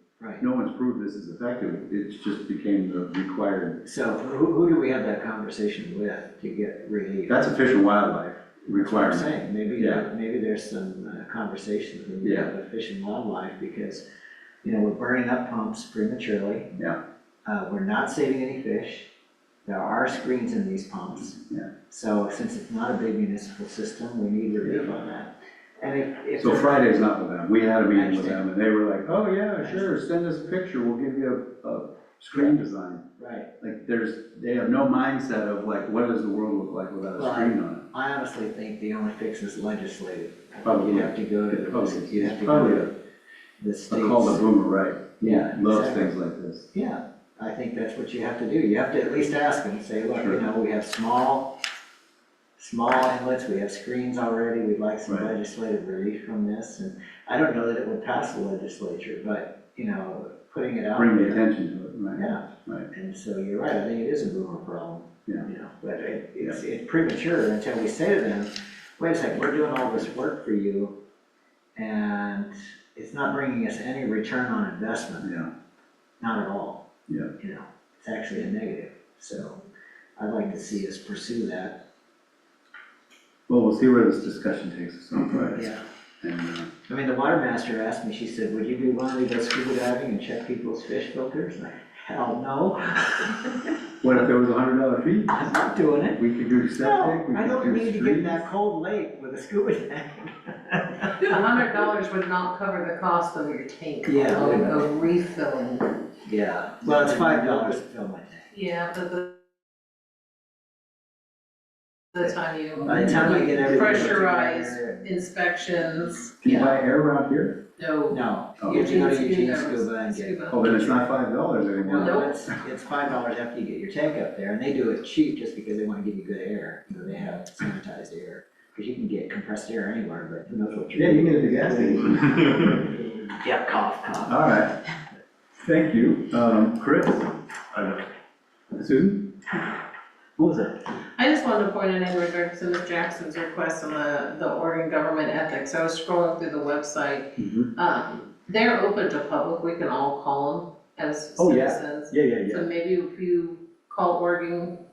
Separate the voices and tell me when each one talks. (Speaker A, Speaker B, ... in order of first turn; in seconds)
Speaker A: 0.2-0.4, 3.8-7.4, 8.7-14.0, 14.6-16.7, 17.4-19.1, 19.6-26.9, 27.9-28.4, 29.6-30.0, 33.2-33.5, 37.1-42.9, 43.6-44.4, 45.2-46.1, 46.7-51.6, 52.6-61.4, 62.2-71.0, 71.8-75.3, 76.2-76.8, 77.4-79.6, 80.2-81.8, 85.5-85.8, 86.9-93.7, 95.3-96.2, 96.8-101.3, 104.0-104.9, 106.2-108.5, 112.8-115.0, 116.4-116.8, 118.1-121.1, 121.8-134.4
Speaker B: 0.4-3.8, 7.3-10.0, 12.2-12.5, 26.4-33.0, 33.6-37.8, 40.6-42.9, 43.9-46.7, 50.1-50.4, 55.0-55.3, 60.9-62.9, 75.2-75.5, 83.5-86.7, 94.0-95.5, 96.2-98.5, 106.8-107.5, 112.7-114.2, 116.4-117.6, 118.6-118.9, 120.5-122.3, 130.9-132.8, 134.2-134.7, 135.6-138.0, 138.7-139.4, 140.4-140.8, 147.4-147.7, 151.4-152.7
Speaker C: 101.2-106.0, 108.5-109.3, 112.1-116.4, 117.8-120.9, 122.0-122.3, 141.2-154.8